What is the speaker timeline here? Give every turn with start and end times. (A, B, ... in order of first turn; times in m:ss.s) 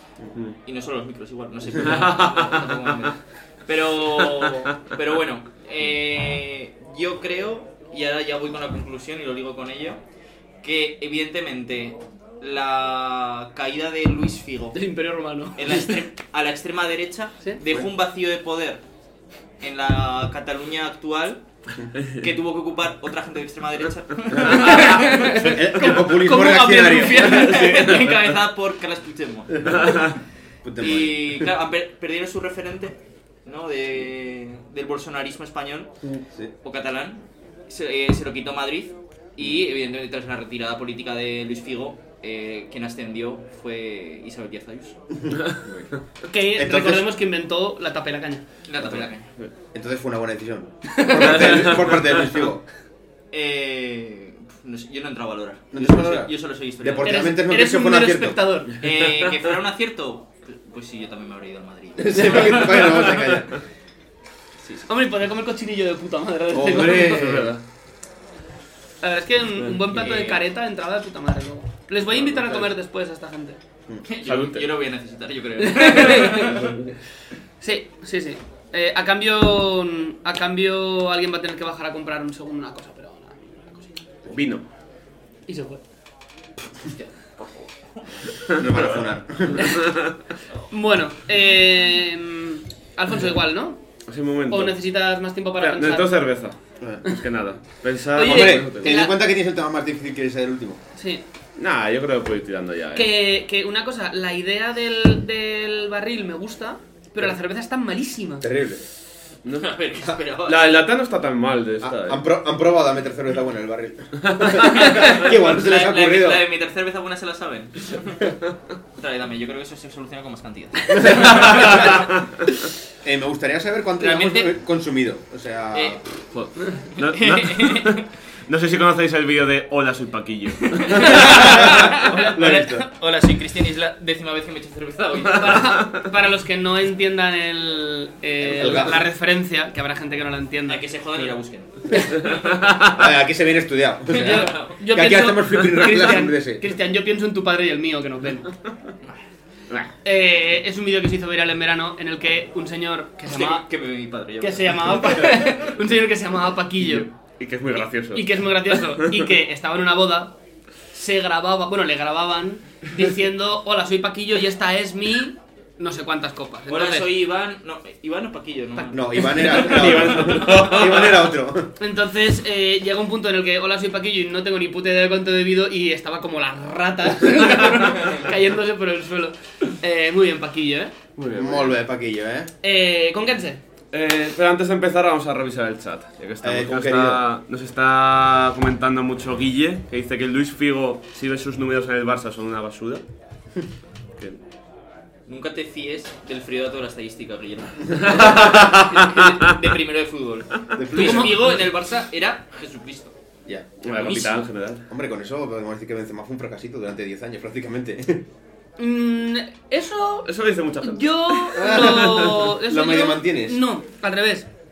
0:00.6-0:10.0 A
0:01.9-0:02.5 B
0:10.6-0:14.8 A
0:14.7-0:15.6 C
0:15.6-0:18.8 A
0:19.6-0:21.4 A
0:22.2-0:25.3 A
0:24.4-0:27.4 D
0:24.5-0:27.9 C
0:26.9-0:30.1 A
0:27.4-0:28.3 B
0:29.6-0:30.2 B
0:30.6-0:31.5 D
0:30.8-0:35.9 A
0:36.6-0:45.0 A
0:45.2-0:45.8 D
0:46.3-0:48.4 C
0:46.5-0:47.1 D
0:48.7-0:49.3 A
0:49.7-0:52.6 D
0:51.0-0:51.6 C
0:53.3-0:57.2 A
0:55.7-0:58.4 D
0:57.0-0:58.7 C
0:58.8-1:03.3 A
1:02.0-1:03.5 D
1:04.8-1:07.5 C
1:06.5-1:07.5 D
1:06.9-1:07.6 B
1:09.0-1:13.6 C
1:09.6-1:10.2 B
1:09.9-1:10.3 A
1:12.1-1:12.6 B
1:14.0-1:16.7 A
1:14.2-1:14.7 B
1:15.6-1:16.7 C
1:16.5-1:16.9 B
1:17.6-1:23.9 C
1:24.3-1:24.6 B
1:25.5-1:25.8 C
1:26.8-1:28.0 A
1:28.5-1:29.8 D
1:29.8-1:30.1 B
1:30.7-1:33.8 C
1:34.1-1:34.8 B
1:34.5-1:36.1 C
1:35.6-1:39.0 B
1:38.1-1:39.1 C
1:38.2-1:40.8 D
1:40.9-1:41.2 C
1:41.6-1:43.1 B
1:42.9-1:48.5 C
1:48.4-1:48.8 D
1:49.4-1:49.7 B
1:49.6-1:50.8 A
1:50.4-1:52.2 B
1:51.8-1:56.4 D
1:54.3-1:54.6 B
1:54.6-1:58.3 A
1:59.0-2:02.0 A
2:01.0-2:02.0 D
2:01.1-2:02.0 B
2:03.0-2:06.0 D
2:04.0-2:04.5 A
2:05.7-2:06.0 A
2:06.3-2:12.8 B
2:07.0-2:08.0 A
2:10.7-2:15.6 A
2:15.2-2:20.8 C
2:15.4-2:16.0 B
2:18.4-2:19.0 D
2:20.7-2:22.6 A
2:22.2-2:23.0 B
2:22.9-2:26.6 D
2:24.1-2:24.8 A
2:24.1-2:28.5 C
2:30.0-2:33.6 C
2:33.2-2:35.6 A
2:34.4-2:37.1 C
2:36.8-2:39.2 B
2:38.1-2:40.3 C
2:40.9-2:47.1 C
2:46.7-2:51.1 A
2:48.8-2:49.7 C
2:48.9-2:51.7 D
2:49.5-2:51.2 B
2:51.8-3:00.9 C
3:01.2-3:01.7 B
3:01.3-3:02.5 D
3:02.6-3:03.6 C
3:03.9-3:13.0 B
3:06.4-3:07.2 D
3:15.3-3:23.1 A
3:18.0-3:19.4 B
3:20.7-3:21.4 D
3:21.0-3:21.3 C
3:23.8-3:24.8 B
3:23.9-3:24.5 A
3:24.9-3:28.2 D
3:28.8-3:30.3 C
3:30.2-3:32.4 B
3:30.8-3:34.5 C
3:31.6-3:33.6 D